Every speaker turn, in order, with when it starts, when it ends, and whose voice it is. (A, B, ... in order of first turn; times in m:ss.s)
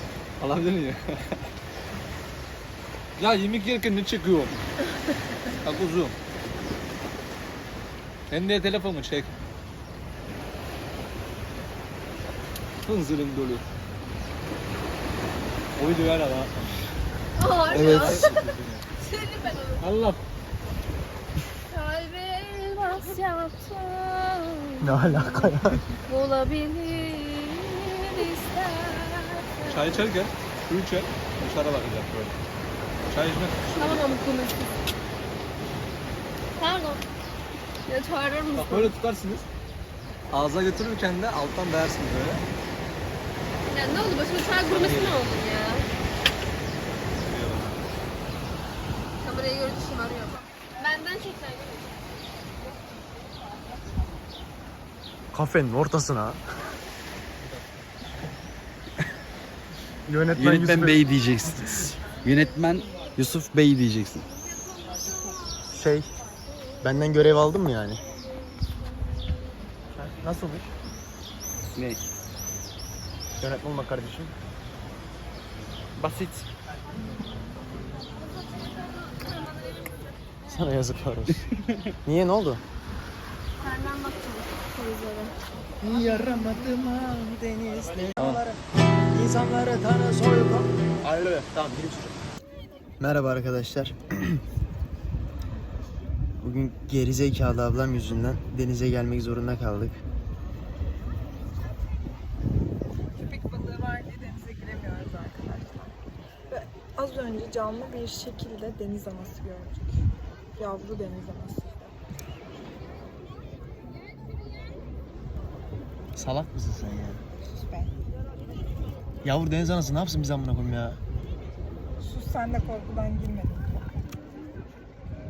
0:00.4-0:01.4 A
0:03.2-0:04.6 A
0:05.6-0:06.2 A
0:08.3-0:09.3 A
0:12.8-0:13.6 A
0:15.8-0:16.9 A
0:17.4-0:19.8 B
0:17.7-0:18.8 A
0:19.8-0:20.2 A
0:21.7-0:30.0 B
0:24.8-0:25.8 C
0:29.7-0:32.4 A
0:33.1-0:34.1 A
0:33.8-0:34.8 B
0:36.6-0:37.0 B
0:37.9-0:38.9 B
0:38.5-0:39.5 A
0:40.3-0:42.4 A
0:43.7-0:45.9 B
0:44.6-0:45.2 A
0:47.1-0:47.8 A
0:49.2-0:52.0 B
0:55.3-0:56.4 C
1:00.1-1:01.1 C
1:00.4-1:04.3 D
1:05.7-1:06.1 C
1:06.8-1:08.0 C
1:10.0-1:10.7 C
1:11.8-1:12.0 D
1:13.4-1:14.3 C
1:16.0-1:16.5 C
1:20.5-1:21.4 C
1:22.0-1:22.6 C
1:23.6-1:25.4 B
1:25.8-1:28.6 C
1:28.2-1:28.4 A
1:29.1-1:32.2 C
1:33.0-1:34.4 C
1:36.4-1:40.0 C
1:43.1-1:46.0 E
1:46.5-1:50.1 E
1:50.6-1:52.0 E
1:56.2-1:57.2 C
1:57.4-1:58.0 E
1:59.2-2:01.0 C
2:02.0-2:03.9 E